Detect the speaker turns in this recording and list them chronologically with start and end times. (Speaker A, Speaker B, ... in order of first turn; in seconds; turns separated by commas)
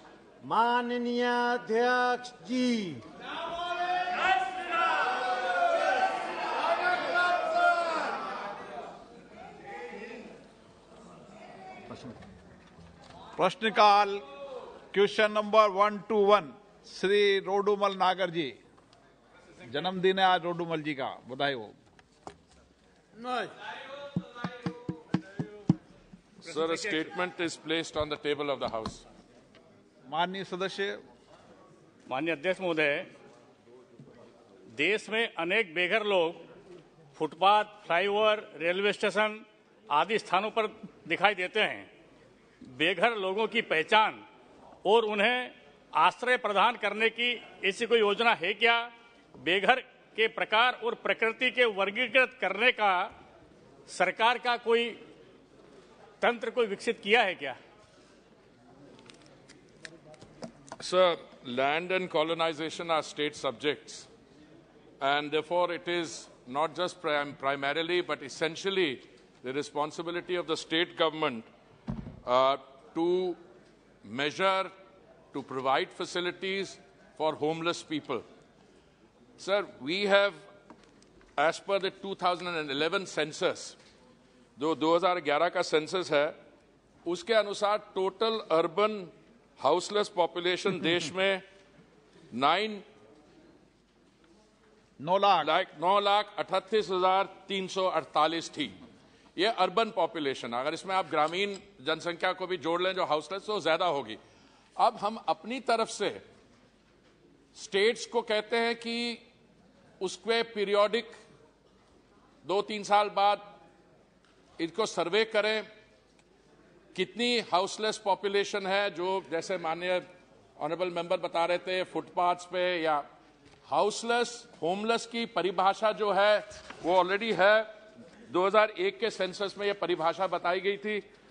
Speaker A: 0.4-3.0, Speaker B: 13.3-14.2, Speaker B: 14.9-18.6, Speaker B: 19.7-21.7, Speaker C: 26.4-29.0, Speaker B: 30.1-31.0, Speaker D: 32.1-33.1, Speaker D: 34.7-36.4, Speaker D: 37.1-41.9, Speaker D: 42.7-44.2, Speaker D: 44.9-53.1, Speaker D: 53.9-55.0, Speaker D: 56.2-57.6, Speaker C: 60.8-64.1, Speaker C: 65.0-71.5, Speaker C: 72.2-73.4, Speaker C: 74.0-74.7, Speaker C: 75.3-78.2, Speaker C: 79.4-80.4, Speaker C: 81.4-83.8, Speaker C: 84.6-86.3, Speaker C: 87.0-91.4, Speaker C: 92.3-92.8, Speaker B: 95.0-95.5, Speaker C: 95.4-98.8, Speaker C: 99.3-104.2, Speaker C: 104.8-106.2, Speaker C: 107.5-109.2, Speaker C: 110.0-111.2, Speaker C: 112.4-113.5, Speaker C: 114.6-115.7, Speaker C: 116.9-120.0, Speaker C: 120.6-123.0, Speaker C: 123.7-127.7, Speaker C: 128.3-131.0